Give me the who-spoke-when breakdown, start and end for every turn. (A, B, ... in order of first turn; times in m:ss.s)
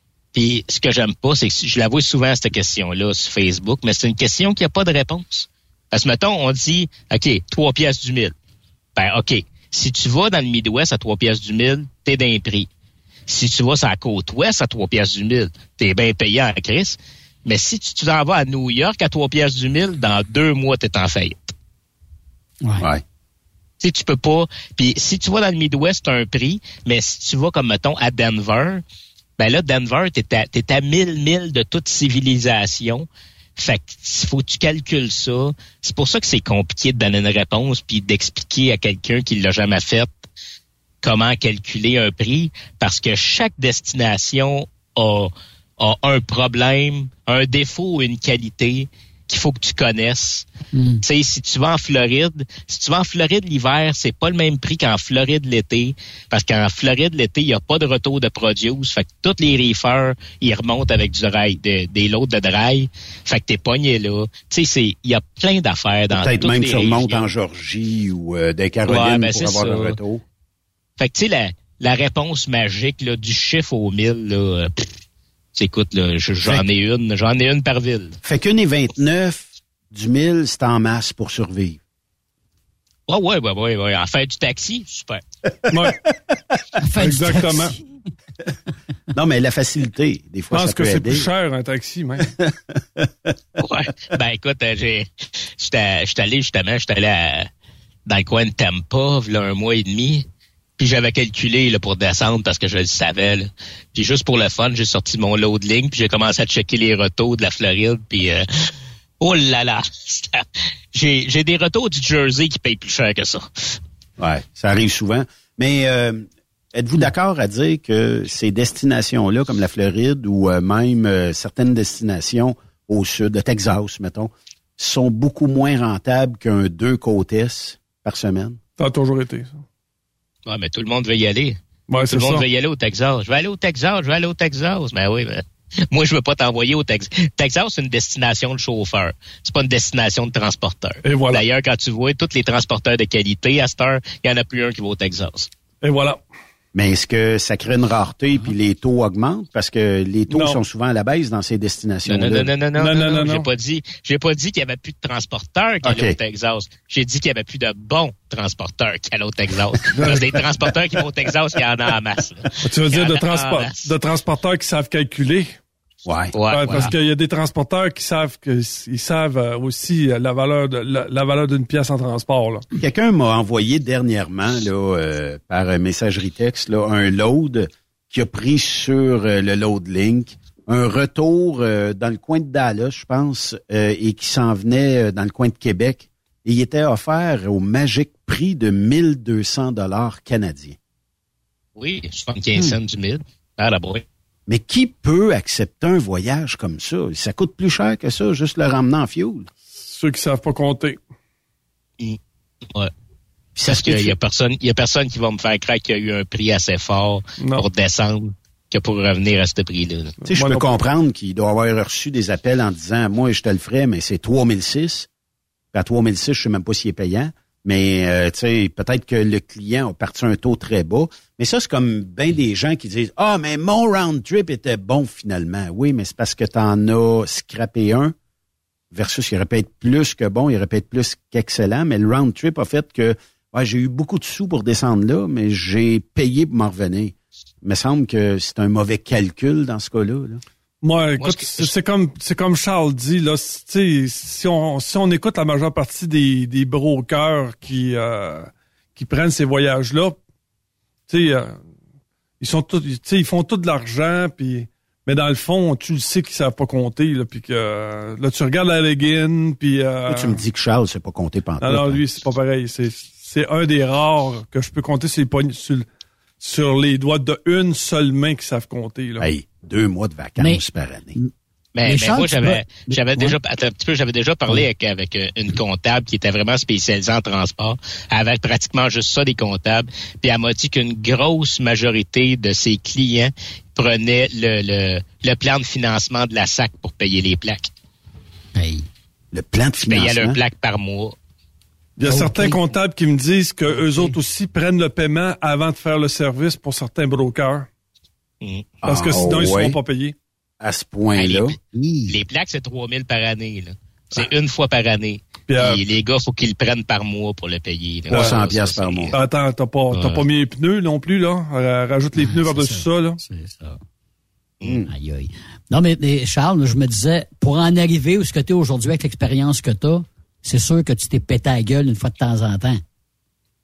0:00.3-0:08.3 A
0:09.0-0:12.7 A
0:13.3-0:21.5 A
0:23.8-0:28.8 A
0:29.4-0:40.2 A
0:41.0-0:50.5 A
0:50.7-0:51.0 B
0:51.0-1:07.2 A
1:06.1-1:10.2 C
1:08.8-1:10.0 A
1:11.0-1:14.9 A
1:15.5-1:18.2 A
1:18.2-1:21.8 C
1:23.1-1:25.2 A
1:25.7-1:26.0 D
1:26.8-1:27.8 B
1:27.0-1:27.7 D
1:29.1-1:31.3 C
1:30.5-1:32.3 D
1:32.3-1:33.1 C
1:33.6-1:37.5 A
1:38.1-1:40.2 A
1:40.8-1:48.7 A
1:49.2-1:53.7 A
1:54.2-2:08.6 C
2:08.8-2:09.6 D
2:10.4-2:25.5 A
2:11.9-2:12.4 D
2:21.0-2:21.4 D
2:25.8-2:26.2 D
2:26.7-2:32.5 C
2:30.3-2:30.6 D
2:32.0-2:43.9 A
2:32.8-2:33.5 D
2:35.8-2:36.2 C
2:39.9-2:40.3 D
2:42.6-2:45.6 D
2:46.0-2:46.3 C
2:46.3-2:46.9 A
2:46.5-2:52.6 D
2:52.8-3:10.8 C
3:11.8-3:14.0 A
3:14.5-3:19.5 C
3:19.8-3:21.0 D
3:23.6-3:24.1 C
3:23.7-3:30.2 A
3:27.4-3:27.6 D
3:30.3-3:35.1 C
3:30.3-3:30.7 D
3:35.7-3:48.1 C
3:48.9-4:00.4 C
4:00.8-4:10.2 D
4:01.2-4:01.7 A
4:11.1-4:11.6 D
4:12.4-4:20.4 D
4:20.1-4:22.0 C
4:21.6-4:25.8 D
4:26.4-4:29.3 D
4:29.2-4:31.2 C
4:31.7-4:47.7 A
4:31.8-4:33.4 B
4:48.5-4:48.8 B
4:49.3-4:50.4 C
4:49.9-4:51.2 A
4:52.0-4:57.7 D
4:52.1-4:52.6 B
4:53.8-4:54.1 B
4:58.4-4:58.7 A
4:58.8-4:59.8 C
4:58.8-5:00.1 D
5:00.6-5:02.2 C
5:01.2-5:01.6 A
5:02.1-5:09.1 A
5:05.5-5:05.8 D
5:08.1-5:08.4 D
5:08.1-5:09.1 C
5:09.1-5:13.2 D
5:09.9-5:10.3 A
5:12.2-5:13.8 B
5:14.6-5:14.9 C
5:14.9-5:22.8 B